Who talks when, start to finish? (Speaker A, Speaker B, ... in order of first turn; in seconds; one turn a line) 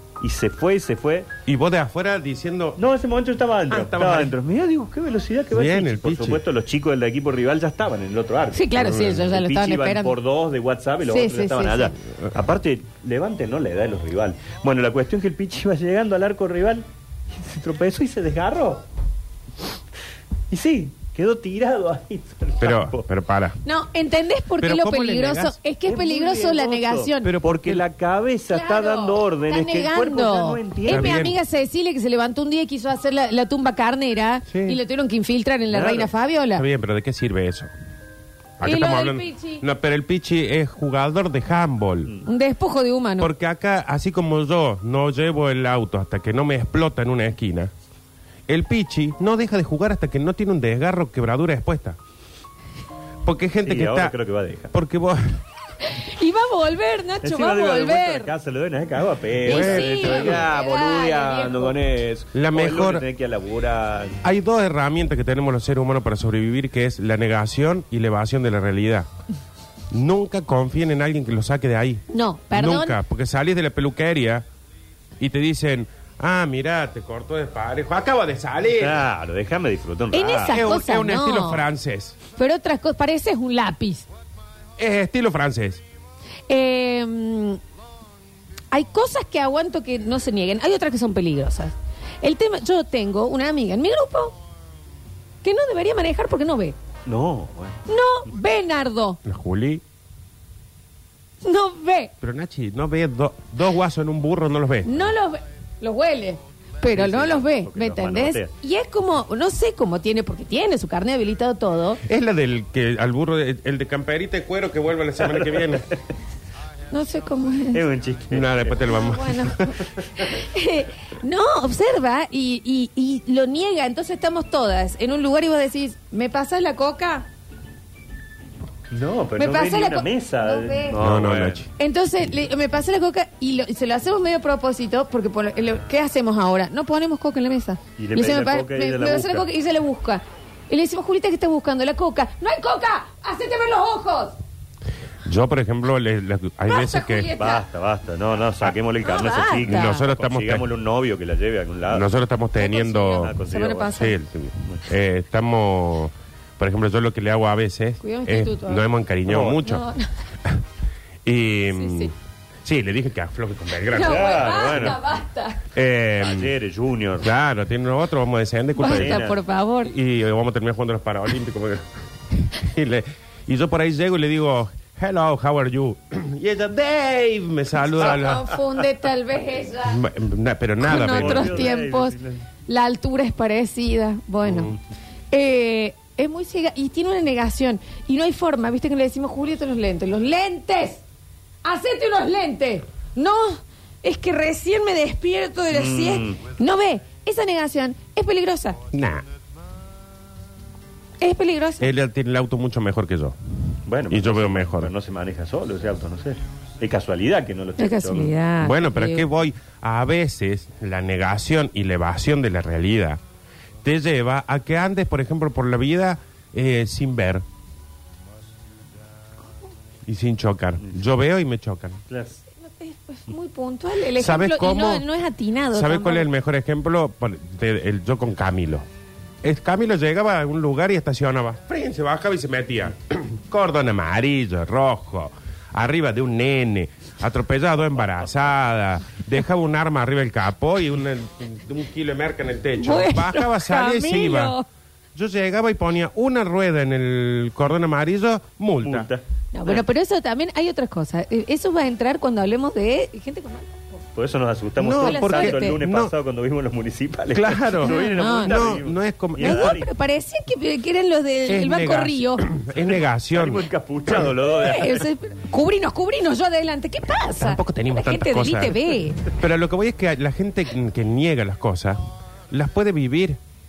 Speaker A: 0.2-1.3
Speaker B: 1.4-2.8
Speaker A: 2.8-18.8
Speaker B: 3.7-4.3
Speaker B: 5.5-6.4
Speaker C: 8.5-10.2
Speaker B: 8.8-9.3
Speaker C: 11.1-11.9
Speaker A: 20.5-23.0
Speaker B: 22.6-23.6
Speaker C: 23.6-27.3
Speaker B: 24.6-25.6
Speaker A: 25.8-31.2
Speaker B: 27.2-27.8
Speaker C: 28.5-36.6
Speaker B: 30.9-31.4
Speaker B: 34.5-34.8
Speaker A: 35.7-36.0
Speaker B: 36.5-37.7
Speaker B: 38.6-42.1
Speaker C: 38.6-39.6
Speaker C: 42.2-43.3
Speaker B: 43.2-47.7
Speaker B: 48.5-52.0
Speaker B: 53.2-54.1
Speaker A: 53.6-54.7
Speaker B: 54.7-55.4
Speaker C: 55.8-58.3
Speaker A: 57.2-64.2
Speaker B: 59.4-60.5
Speaker C: 59.4-61.8
Speaker B: 62.3-63.0
Speaker B: 64.2-69.1
Speaker B: 69.9-74.5
Speaker C: 72.1-73.0
Speaker B: 75.2-79.0
Speaker A: 78.8-80.6
Speaker C: 80.1-81.6
Speaker B: 80.5-82.2
Speaker C: 82.3-84.1
Speaker B: 84.8-85.8
Speaker C: 86.5-87.6
Speaker C: 88.7-94.3
Speaker C: 95.4-96.8
Speaker A: 97.0-97.8
Speaker C: 97.9-99.2
Speaker B: 99.2-99.8
Speaker C: 101.4-102.1
Speaker B: 102.2-105.1
Speaker C: 104.8-112.0
Speaker A: 106.9-108.5
Speaker B: 112.0-115.9
Speaker A: 115.3-116.0
Speaker C: 116.9-117.8
Speaker A: 117.7-119.0
Speaker B: 118.3-119.8
Speaker C: 118.9-127.2
Speaker A: 128.9-131.7
Speaker C: 129.4-130.9
Speaker B: 131.0-131.7
Speaker C: 131.8-144.3
Speaker A: 138.0-139.5
Speaker B: 145.2-147.3
Speaker C: 146.7-147.6
Speaker A: 147.4-152.1
Speaker C: 149.0-150.1
Speaker B: 149.6-150.7
Speaker B: 151.9-153.4
Speaker C: 152.6-154.1
Speaker A: 153.2-154.0
Speaker B: 153.9-159.8
Speaker C: 158.0-158.9
Speaker A: 159.2-159.6
Speaker C: 159.6-160.1
Speaker B: 161.2-162.1
Speaker C: 161.7-162.1
Speaker B: 162.6-165.0
Speaker C: 163.9-165.6
Speaker A: 164.0-165.0
Speaker B: 165.7-166.5
Speaker A: 166.2-167.3
Speaker B: 167.2-169.3
Speaker C: 168.8-169.9
Speaker A: 168.8-169.4
Speaker B: 169.8-178.5
Speaker C: 177.8-180.0
Speaker B: 179.8-181.7
Speaker C: 180.8-182.2
Speaker A: 180.9-182.4
Speaker C: 182.7-184.7
Speaker B: 184.5-184.7
Speaker C: 185.3-191.0
Speaker C: 191.6-198.8
Speaker A: 195.7-196.4
Speaker B: 198.9-199.2
Speaker C: 201.2-201.9
Speaker B: 201.8-203.3
Speaker A: 203.9-208.3
Speaker B: 204.1-204.9
Speaker C: 207.8-209.3
Speaker B: 208.6-213.2
Speaker B: 213.8-217.4
Speaker B: 220.1-222.0
Speaker A: 222.1-222.4
Speaker C: 222.5-226.3
Speaker B: 224.2-225.0
Speaker B: 225.7-228.8
Speaker B: 229.4-244.5
Speaker C: 242.8-244.6
Speaker B: 245.1-249.1
Speaker A: 248.8-249.8
Speaker C: 249.5-254.0
Speaker A: 254.2-259.9
Speaker B: 254.8-256.1
Speaker C: 254.9-255.8
Speaker B: 257.3-259.8
Speaker C: 257.8-258.8
Speaker C: 259.4-262.5
Speaker B: 261.5-263.6
Speaker A: 262.7-265.1
Speaker C: 264.5-269.2
Speaker B: 267.4-268.8
Speaker B: 269.3-272.0
Speaker B: 272.5-273.4